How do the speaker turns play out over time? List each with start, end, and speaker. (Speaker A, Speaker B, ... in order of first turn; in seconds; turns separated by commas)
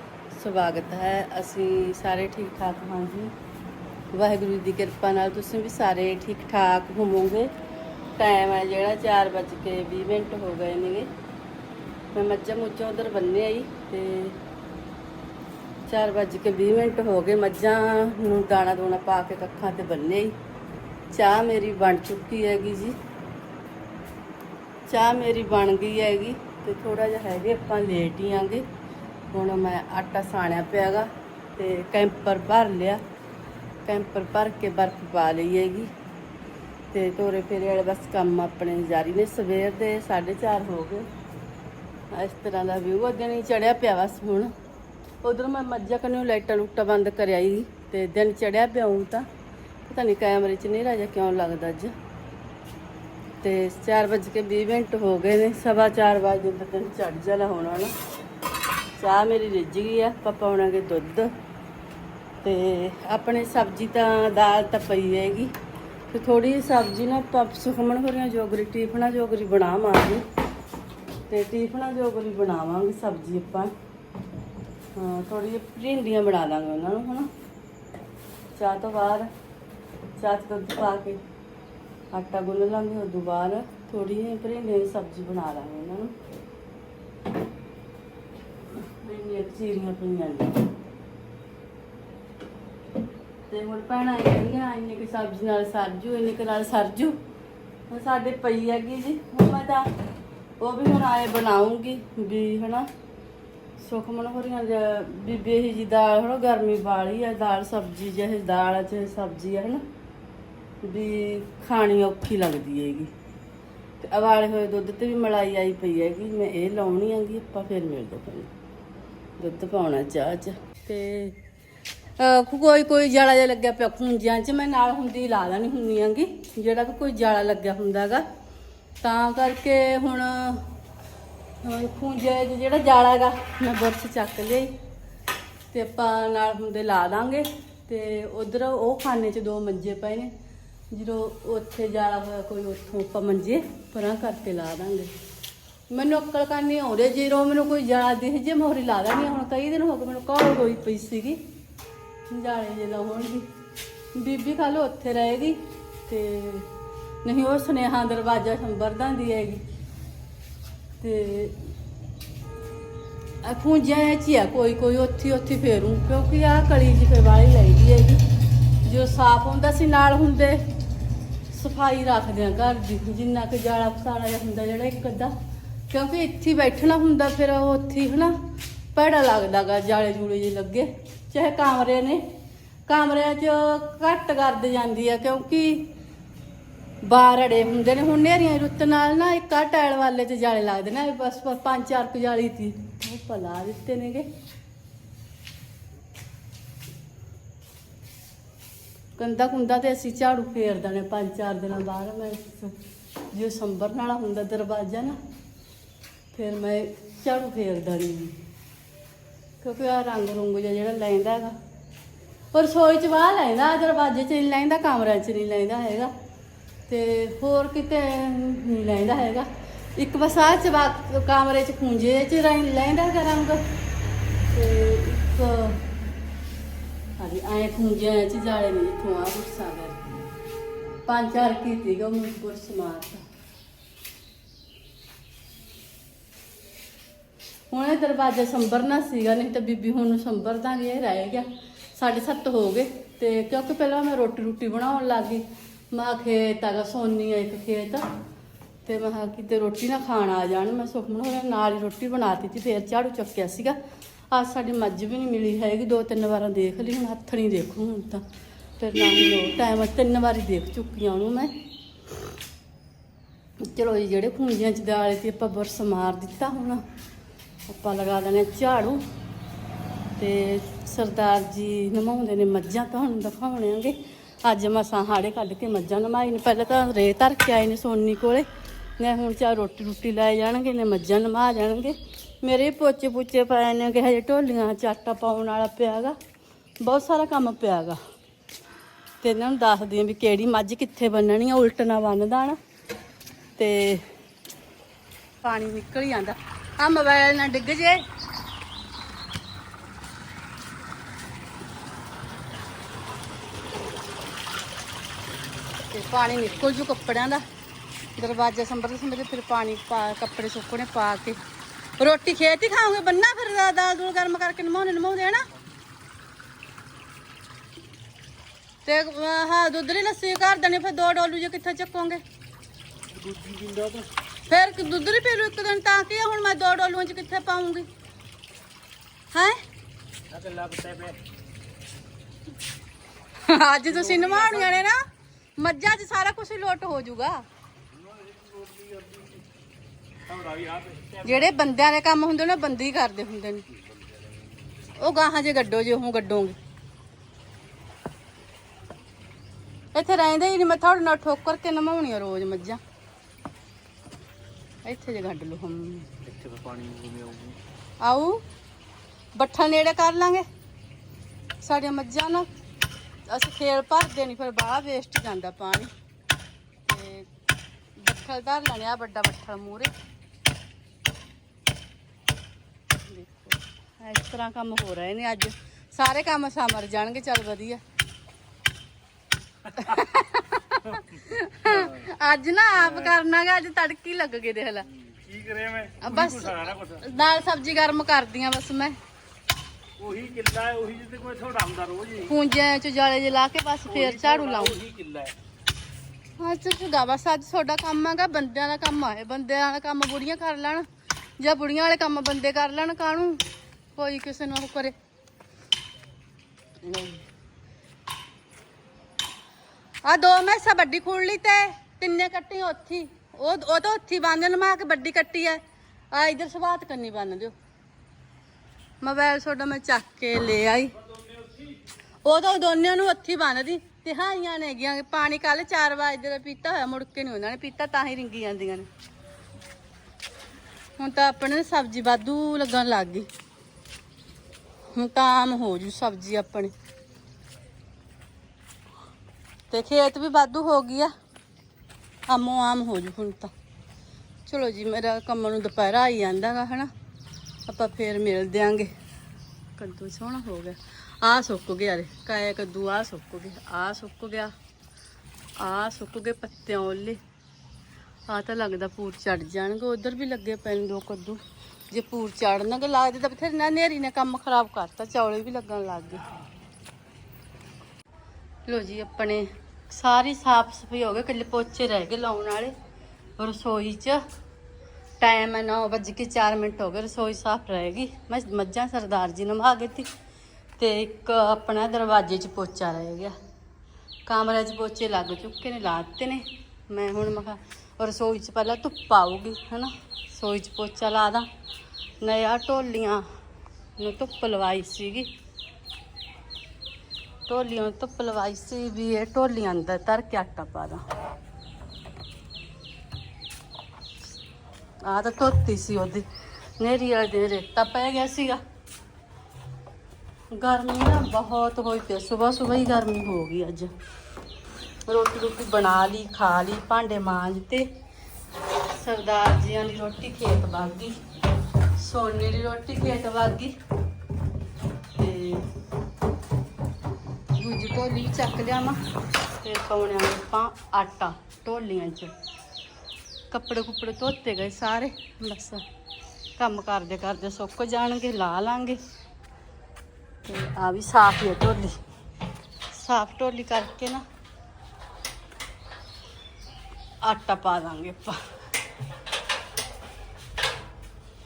Speaker A: 0.3-3.3, Speaker A: 4.1-7.5, Speaker A: 8.2-11.1, Speaker A: 12.1-14.4, Speaker A: 15.9-20.4, Speaker A: 21.1-23.0, Speaker A: 24.9-28.6, Speaker A: 29.3-33.0, Speaker A: 33.8-35.9, Speaker A: 36.9-41.1, Speaker A: 42.1-44.5, Speaker A: 45.2-49.2, Speaker A: 49.9-51.9, Speaker A: 53.4-57.9, Speaker A: 59.0-61.3, Speaker A: 62.4-65.5, Speaker A: 66.1-70.2, Speaker A: 71.3-73.7, Speaker A: 74.9-77.3, Speaker A: 78.5-79.3, Speaker A: 80.2-81.2, Speaker A: 82.1-86.1, Speaker A: 88.7-90.7, Speaker A: 93.5-97.1, Speaker A: 97.9-99.9, Speaker A: 100.6-102.9, Speaker A: 103.8-109.8, Speaker A: 110.8-113.1, Speaker A: 114.0-118.5, Speaker A: 119.4-121.4, Speaker A: 122.2-128.2, Speaker A: 129.0-130.7, Speaker A: 131.6-134.7, Speaker A: 135.7-140.3, Speaker A: 140.9-145.1, Speaker A: 145.9-151.4, Speaker A: 152.3-153.5, Speaker A: 154.2-156.7, Speaker A: 157.2-159.6, Speaker A: 161.0-161.7, Speaker A: 163.4-168.2, Speaker A: 168.8-170.6, Speaker A: 171.5-175.3, Speaker A: 175.9-178.3, Speaker A: 178.9-182.2, Speaker A: 182.9-185.9, Speaker A: 187.0-194.3, Speaker A: 199.2-202.8, Speaker A: 203.3-205.2, Speaker A: 206.3-208.3, Speaker A: 209.6-211.6, Speaker A: 212.5-216.1, Speaker A: 216.9-223.6, Speaker A: 224.5-225.8, Speaker A: 227.2-230.1, Speaker A: 231.1-233.2, Speaker A: 237.7-248.1, Speaker A: 248.8-253.8, Speaker A: 254.3-258.2, Speaker A: 258.8-261.6, Speaker A: 263.6-266.8, Speaker A: 267.7-269.0, Speaker A: 270.2-278.5, Speaker A: 279.0-286.2, Speaker A: 286.8-288.0, Speaker A: 289.2-292.6, Speaker A: 293.6-294.1, Speaker A: 295.4-298.0, Speaker A: 305.9-307.4, Speaker A: 308.2-311.4, Speaker A: 312.0-315.4, Speaker A: 318.8-322.2, Speaker B: 323.1-324.1, Speaker A: 324.5-327.9, Speaker A: 329.3-329.6, Speaker B: 330.3-331.2, Speaker A: 333.4-335.0, Speaker B: 333.9-334.8, Speaker A: 335.6-337.4, Speaker B: 337.9-339.4, Speaker B: 340.3-341.5, Speaker A: 341.2-343.7, Speaker B: 344.0-344.5, Speaker A: 345.0-346.6, Speaker A: 349.9-352.8, Speaker A: 354.8-356.1, Speaker B: 356.2-357.6, Speaker A: 358.0-358.4, Speaker A: 359.4-360.4, Speaker A: 361.6-362.5, Speaker A: 363.3-365.9, Speaker A: 366.8-367.3, Speaker A: 368.0-369.9, Speaker A: 373.0-377.8, Speaker A: 379.7-384.9, Speaker B: 381.6-382.1, Speaker B: 382.8-383.1, Speaker B: 385.0-387.0, Speaker A: 386.0-389.0, Speaker B: 390.0-392.4, Speaker A: 392.2-394.8, Speaker B: 393.9-395.3, Speaker A: 396.4-400.9, Speaker A: 401.4-403.4, Speaker A: 403.9-404.9, Speaker A: 406.8-407.2, Speaker A: 410.1-415.6, Speaker A: 416.1-417.5, Speaker A: 419.0-421.0, Speaker B: 421.1-421.8, Speaker A: 422.2-428.9, Speaker A: 431.0-433.3, Speaker A: 434.9-436.7, Speaker A: 439.7-441.1, Speaker A: 442.3-443.5, Speaker A: 444.4-446.9, Speaker A: 447.7-448.9, Speaker A: 449.8-454.5, Speaker A: 455.6-457.2, Speaker A: 458.3-466.3, Speaker A: 468.7-472.7, Speaker A: 473.4-474.2, Speaker A: 475.2-480.1, Speaker A: 480.8-483.4, Speaker A: 484.3-491.5, Speaker A: 492.2-493.2, Speaker A: 494.0-495.3, Speaker A: 497.5-501.0, Speaker A: 505.0-506.3, Speaker A: 506.8-508.6, Speaker A: 510.5-513.9, Speaker A: 515.1-517.9, Speaker A: 518.9-521.2, Speaker A: 522.0-523.8, Speaker A: 525.1-525.6, Speaker A: 527.6-529.0, Speaker A: 529.6-532.4, Speaker A: 533.5-535.8, Speaker A: 536.6-539.0, Speaker A: 540.5-542.0, Speaker A: 542.9-544.2, Speaker A: 547.2-548.4